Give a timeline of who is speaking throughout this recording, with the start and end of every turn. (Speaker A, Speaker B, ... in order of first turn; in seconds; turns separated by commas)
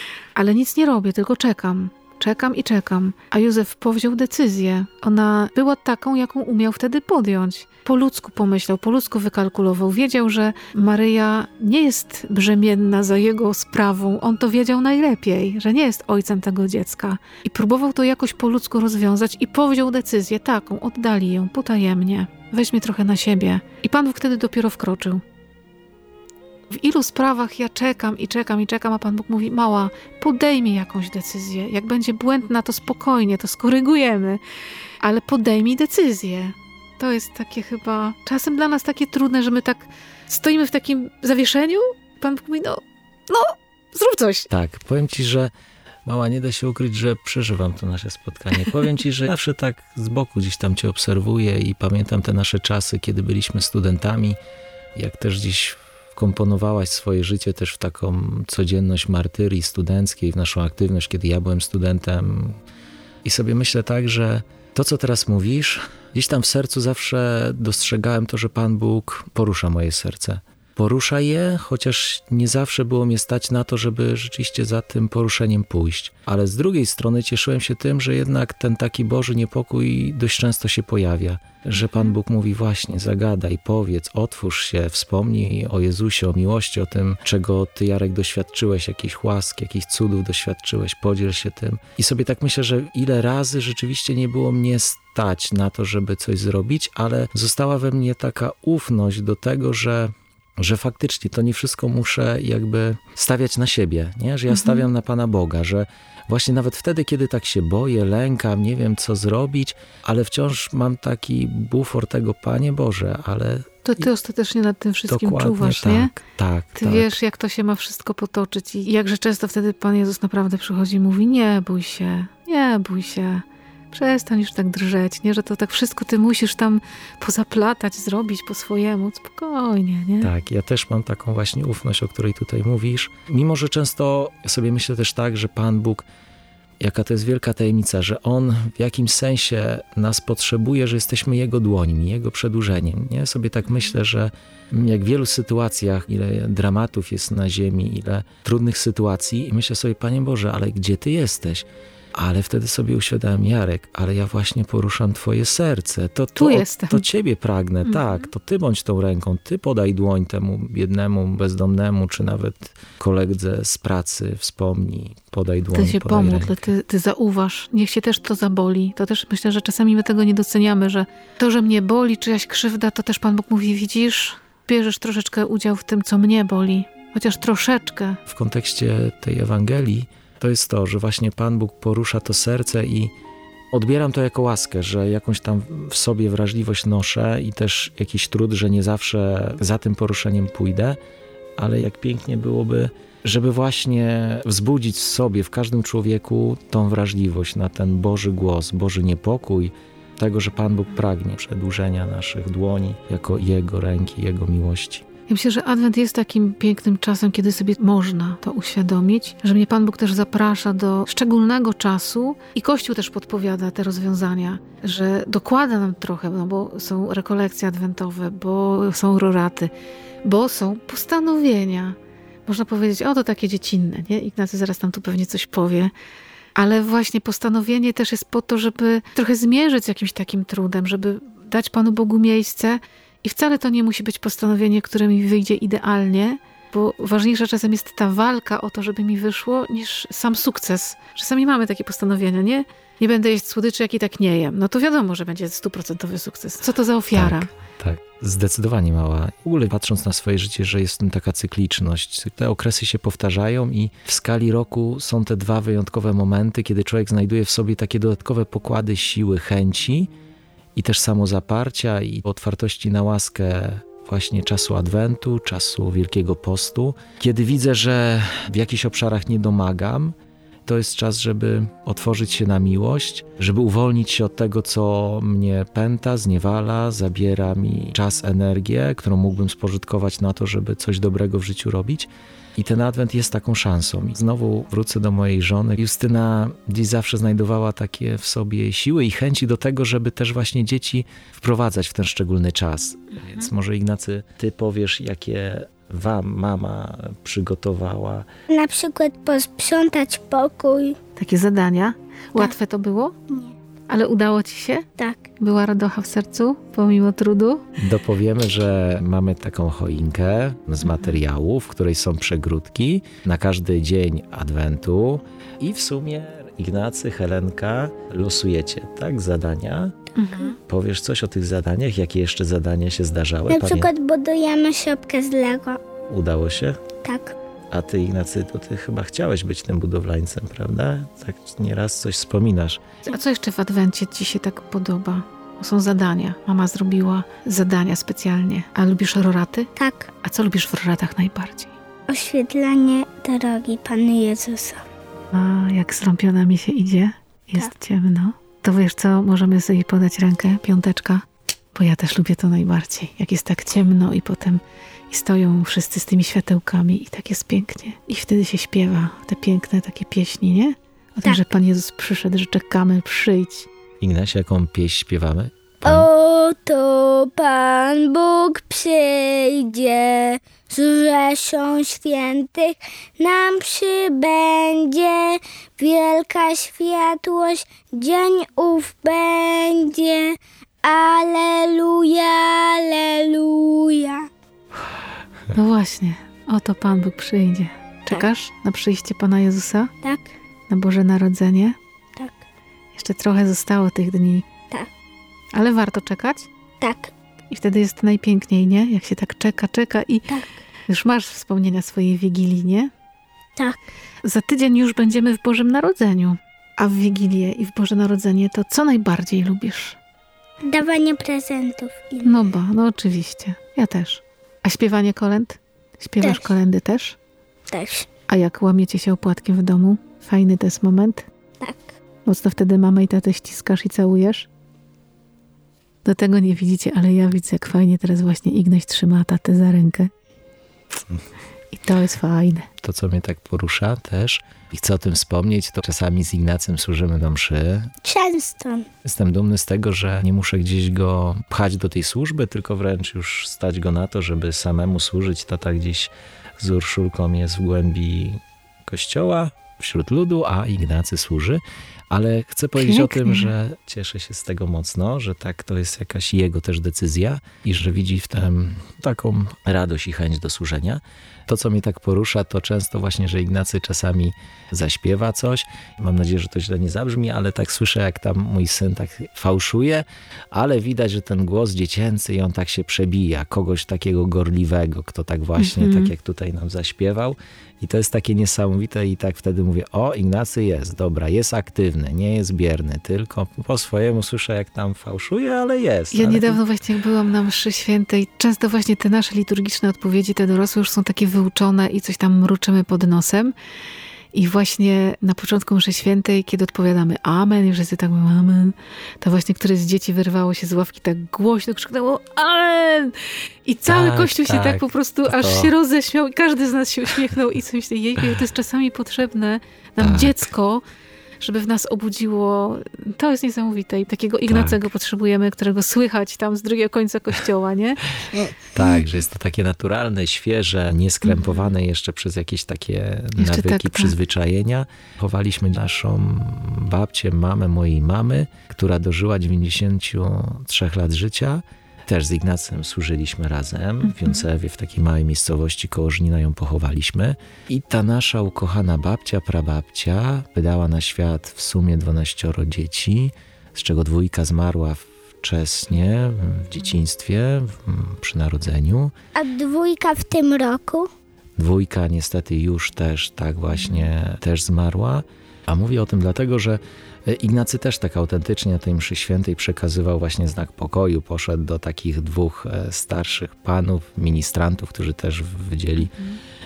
Speaker A: 0.3-25.2, Speaker A: 26.7-34.4, Speaker A: 35.0-44.5, Speaker B: 44.5-45.5, Speaker B: 46.0-54.4, Speaker B: 54.9-62.6, Speaker B: 63.2-114.0, Speaker A: 81.8-82.1, Speaker A: 104.5-104.9, Speaker A: 113.8-116.1, Speaker B: 115.1-117.2, Speaker A: 116.8-130.3, Speaker B: 130.2-136.1, Speaker B: 136.8-166.7, Speaker A: 156.3-157.1, Speaker A: 165.7-178.2, Speaker B: 178.3-183.1, Speaker B: 183.7-191.0, Speaker B: 191.6-205.0, Speaker A: 205.3-219.7, Speaker A: 220.2-225.9, Speaker A: 226.5-247.5, Speaker B: 247.1-260.1, Speaker B: 260.7-270.1, Speaker B: 270.6-298.3, Speaker C: 298.5-301.0, Speaker A: 301.1-303.1, Speaker A: 303.9-304.9, Speaker C: 305.0-305.2, Speaker A: 305.4-307.6, Speaker B: 307.8-320.0, Speaker A: 310.9-311.1, Speaker A: 320.1-320.6, Speaker B: 320.7-323.9, Speaker C: 323.5-325.8, Speaker B: 326.1-326.8, Speaker C: 327.0-327.3, Speaker B: 327.7-332.8, Speaker A: 333.0-339.7, Speaker C: 339.8-340.1, Speaker A: 340.2-341.7, Speaker C: 342.1-344.8, Speaker A: 345.3-363.7, Speaker B: 364.0-366.1, Speaker C: 365.8-384.3, Speaker A: 385.5-389.9, Speaker C: 390.0-390.3, Speaker A: 390.7-391.8, Speaker A: 392.9-394.5, Speaker A: 395.5-396.5, Speaker C: 396.8-397.1, Speaker A: 397.5-400.3, Speaker A: 400.9-402.9, Speaker A: 404.2-410.0, Speaker C: 410.6-412.4, Speaker A: 412.2-417.2, Speaker C: 416.2-416.5, Speaker C: 417.7-418.1, Speaker A: 418.3-421.3, Speaker C: 421.6-421.9, Speaker A: 422.2-424.5, Speaker A: 426.0-430.1, Speaker A: 431.7-432.7, Speaker B: 432.8-437.9, Speaker C: 438.0-438.9, Speaker B: 439.0-486.6, Speaker A: 452.8-453.5, Speaker A: 475.6-476.1, Speaker A: 486.1-493.5, Speaker A: 494.3-510.8, Speaker B: 503.9-505.7, Speaker B: 510.0-510.4, Speaker A: 511.4-518.0, Speaker B: 514.5-514.9, Speaker B: 518.5-549.1, Speaker A: 521.3-521.6, Speaker A: 523.4-524.1, Speaker A: 534.0-534.4, Speaker C: 549.3-551.1, Speaker B: 551.6-566.1, Speaker A: 553.8-554.0, Speaker A: 566.1-566.4